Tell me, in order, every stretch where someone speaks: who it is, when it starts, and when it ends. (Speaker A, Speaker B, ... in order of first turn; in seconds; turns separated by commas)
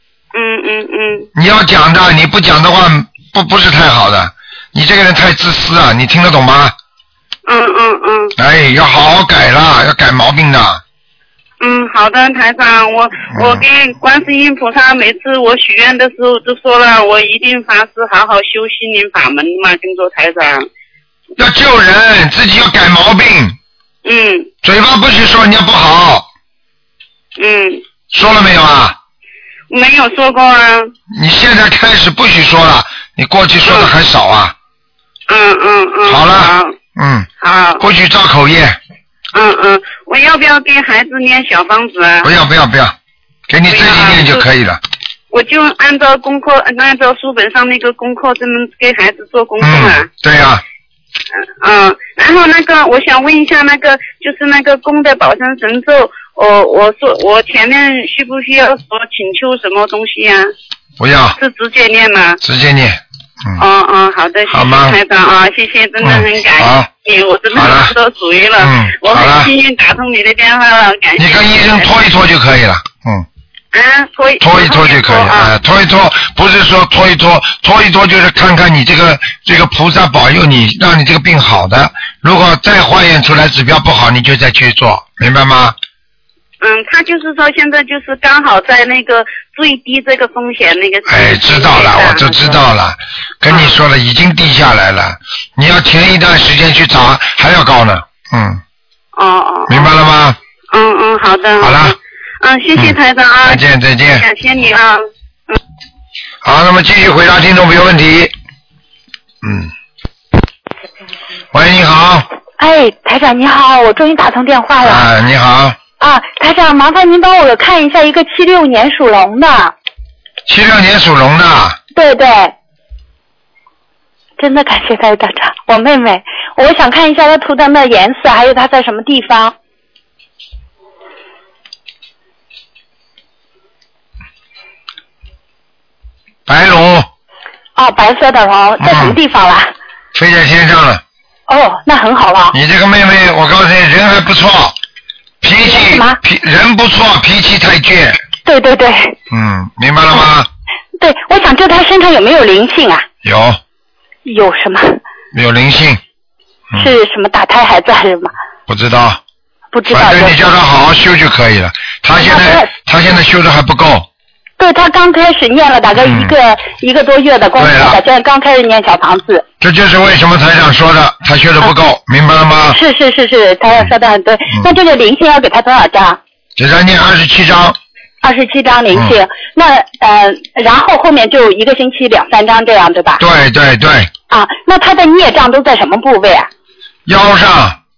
Speaker A: 0.3-1.3, Speaker B: 1.3-6.7, Speaker A: 7.5-8.3, Speaker B: 8.4-10.8, Speaker A: 11.6-20.6, Speaker B: 13.3-13.6, Speaker B: 21.4-23.6, Speaker A: 24.0-24.5, Speaker B: 24.6-26.2, Speaker A: 27.4-27.8, Speaker B: 28.1-29.0, Speaker A: 29.7-30.9, Speaker B: 31.1-34.5, Speaker A: 33.6-33.9, Speaker A: 35.3-36.7, Speaker B: 36.0-38.8, Speaker A: 37.4-37.8, Speaker A: 39.3-42.3, Speaker B: 42.2-43.0, Speaker B: 43.5-44.8, Speaker A: 43.7-44.4, Speaker A: 45.3-50.0, Speaker B: 49.6-50.6, Speaker A: 51.6-60.5, Speaker B: 61.0-61.4, Speaker A: 61.4-62.4, Speaker B: 62.4-63.6, Speaker A: 63.6-71.9, Speaker B: 64.5-65.0, Speaker B: 66.0-66.9, Speaker B: 67.5-67.9, Speaker B: 68.6-69.5, Speaker B: 71.2-73.2, Speaker A: 73.7-75.5, Speaker B: 74.4-85.8, Speaker A: 86.6-92.6, Speaker B: 91.0-98.6, Speaker A: 93.5-93.7, Speaker A: 99.2-99.9, Speaker B: 99.7-100.4, Speaker A: 100.7-105.5, Speaker B: 101.6-101.9, Speaker B: 102.8-104.2, Speaker B: 106.4-108.3, Speaker B: 109.4-109.7, Speaker B: 111.5-112.3, Speaker C: 112.6-115.1, Speaker B: 114.8-115.8, Speaker C: 116.0-119.7, Speaker B: 120.5-121.8, Speaker C: 121.9-122.5, Speaker C: 124.4-129.5, Speaker B: 136.5-137.1, Speaker C: 137.8-139.7, Speaker B: 138.8-139.2, Speaker B: 140.1-141.0, Speaker C: 141.5-142.5, Speaker B: 142.5-144.7, Speaker B: 145.4-148.2, Speaker C: 145.6-146.2, Speaker C: 148.4-149.2, Speaker B: 149.3-150.5, Speaker C: 151.0-153.1, Speaker B: 153.2-153.6, Speaker C: 154.2-155.0, Speaker B: 155.3-156.0, Speaker C: 156.8-158.3, Speaker B: 158.7-159.2, Speaker C: 159.7-160.3, Speaker B: 159.9-164.1, Speaker C: 162.2-162.7, Speaker C: 164.6-169.4, Speaker B: 166.0-166.3, Speaker B: 167.6-168.0, Speaker B: 169.6-172.8, Speaker C: 172.7-176.2, Speaker B: 176.6-177.8, Speaker C: 178.2-183.2, Speaker B: 178.9-179.2, Speaker B: 183.2-184.1, Speaker C: 184.3-186.5, Speaker B: 187.1-187.8